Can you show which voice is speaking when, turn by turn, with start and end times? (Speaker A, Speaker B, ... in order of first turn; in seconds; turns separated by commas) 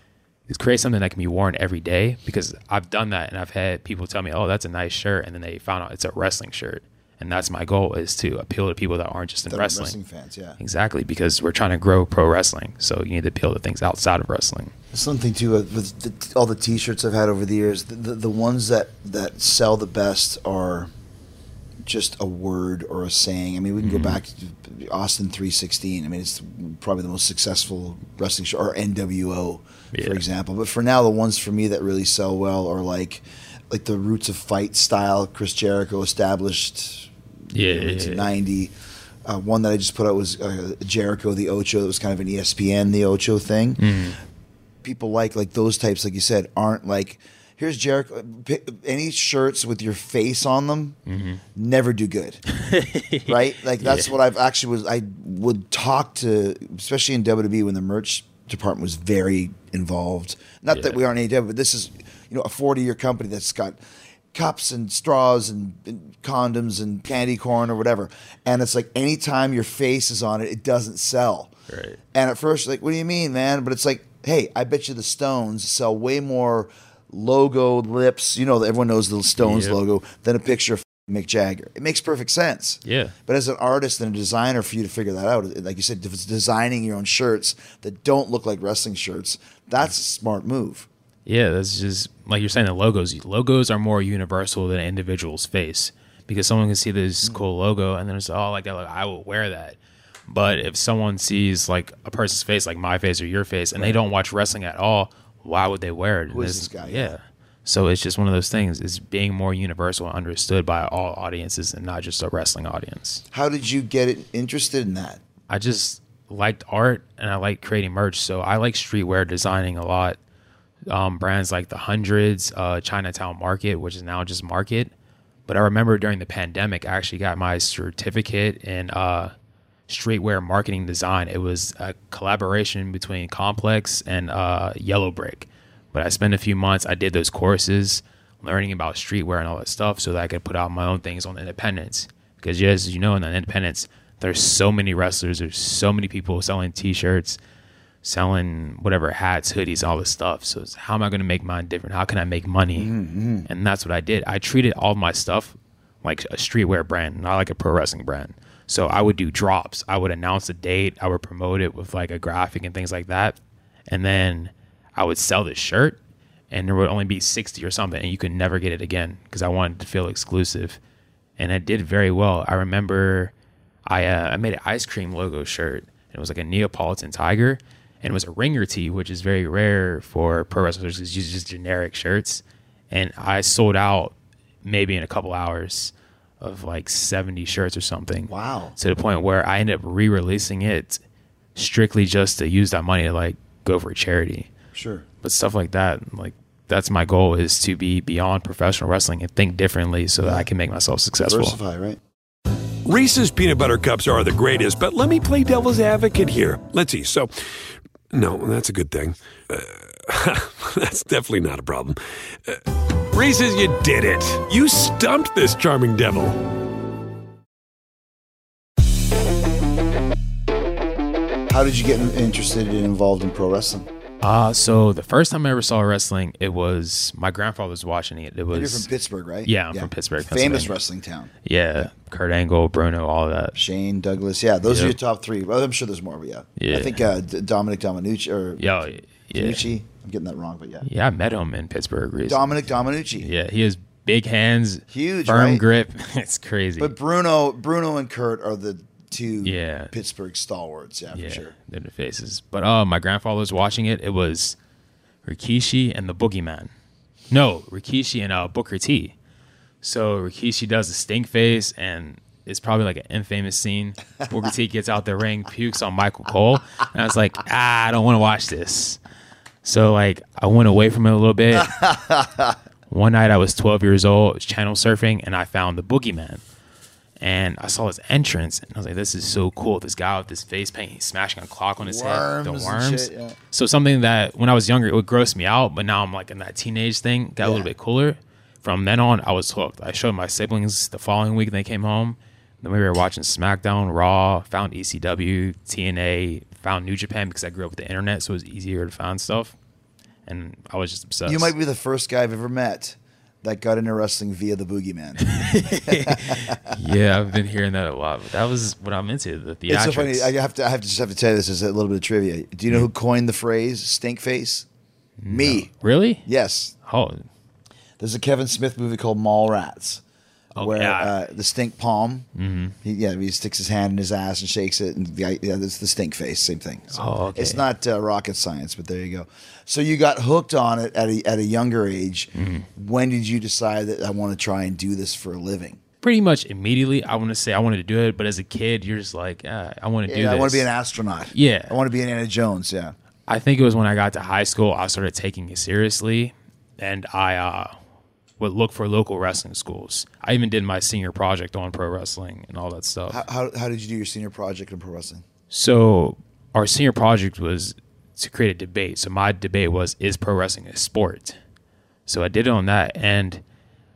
Speaker A: 0.5-9.9, Speaker B: 9.5-10.6, Speaker A: 10.6-14.7, Speaker B: 14.9-20.9, Speaker B: 21.9-38.7, Speaker A: 23.8-24.2, Speaker A: 29.9-30.2, Speaker A: 37.5-38.2, Speaker B: 39.2-43.8, Speaker A: 43.8-44.2, Speaker B: 44.8-51.0, Speaker A: 51.1-51.4, Speaker B: 51.5-52.4, Speaker A: 52.5-54.1, Speaker B: 53.2-63.8, Speaker A: 60.7-61.0, Speaker B: 64.3-71.5, Speaker A: 71.7-72.0, Speaker B: 72.1-90.9, Speaker A: 79.4-79.8, Speaker A: 82.8-83.1, Speaker A: 91.2-113.2, Speaker B: 106.3-107.1, Speaker B: 113.3-115.2, Speaker A: 115.5-120.2, Speaker A: 120.9-124.9, Speaker A: 125.5-129.3, Speaker A: 129.9-147.4, Speaker A: 148.0-152.9, Speaker B: 152.8-153.5, Speaker A: 153.5-163.3, Speaker A: 163.9-166.0, Speaker A: 166.5-170.8, Speaker A: 171.4-173.3, Speaker A: 173.9-191.0, Speaker B: 188.3-188.7, Speaker A: 191.5-194.5, Speaker B: 194.7-195.0, Speaker A: 195.2-201.6, Speaker B: 201.2-202.0, Speaker C: 202.8-207.3, Speaker C: 208.1-212.6, Speaker C: 213.1-216.4, Speaker B: 221.5-223.9, Speaker A: 224.2-228.8, Speaker B: 228.5-231.9, Speaker A: 229.4-230.8, Speaker A: 231.4-233.6, Speaker B: 233.6-238.6, Speaker A: 234.6-234.9, Speaker A: 236.6-237.0, Speaker A: 238.6-239.6, Speaker B: 239.3-240.8, Speaker A: 240.8-242.4, Speaker B: 242.3-243.3, Speaker A: 243.2-246.9, Speaker B: 244.9-245.6, Speaker B: 246.8-251.5, Speaker A: 249.4-249.9, Speaker A: 251.1-254.6, Speaker A: 255.2-256.7, Speaker A: 257.3-259.1, Speaker A: 259.8-269.0, Speaker A: 269.6-271.7, Speaker B: 271.5-272.6, Speaker A: 272.9-276.4, Speaker A: 277.2-299.6, Speaker B: 281.8-283.4, Speaker B: 287.4-287.7, Speaker A: 300.3-301.5, Speaker B: 301.2-306.8, Speaker A: 305.2-310.3, Speaker B: 309.7-314.6, Speaker A: 315.2-316.2, Speaker B: 315.3-315.7, Speaker B: 316.2-316.7, Speaker A: 316.8-317.2, Speaker B: 318.0-320.0, Speaker A: 320.6-321.1, Speaker B: 320.6-322.2, Speaker A: 322.4-322.7, Speaker B: 322.8-335.8, Speaker A: 326.9-327.6, Speaker A: 332.3-332.6, Speaker A: 336.0-340.7, Speaker B: 340.1-342.9, Speaker A: 341.3-341.8, Speaker A: 343.3-347.7, Speaker A: 348.4-353.2, Speaker B: 353.1-355.2, Speaker A: 355.5-361.4, Speaker A: 362.1-363.4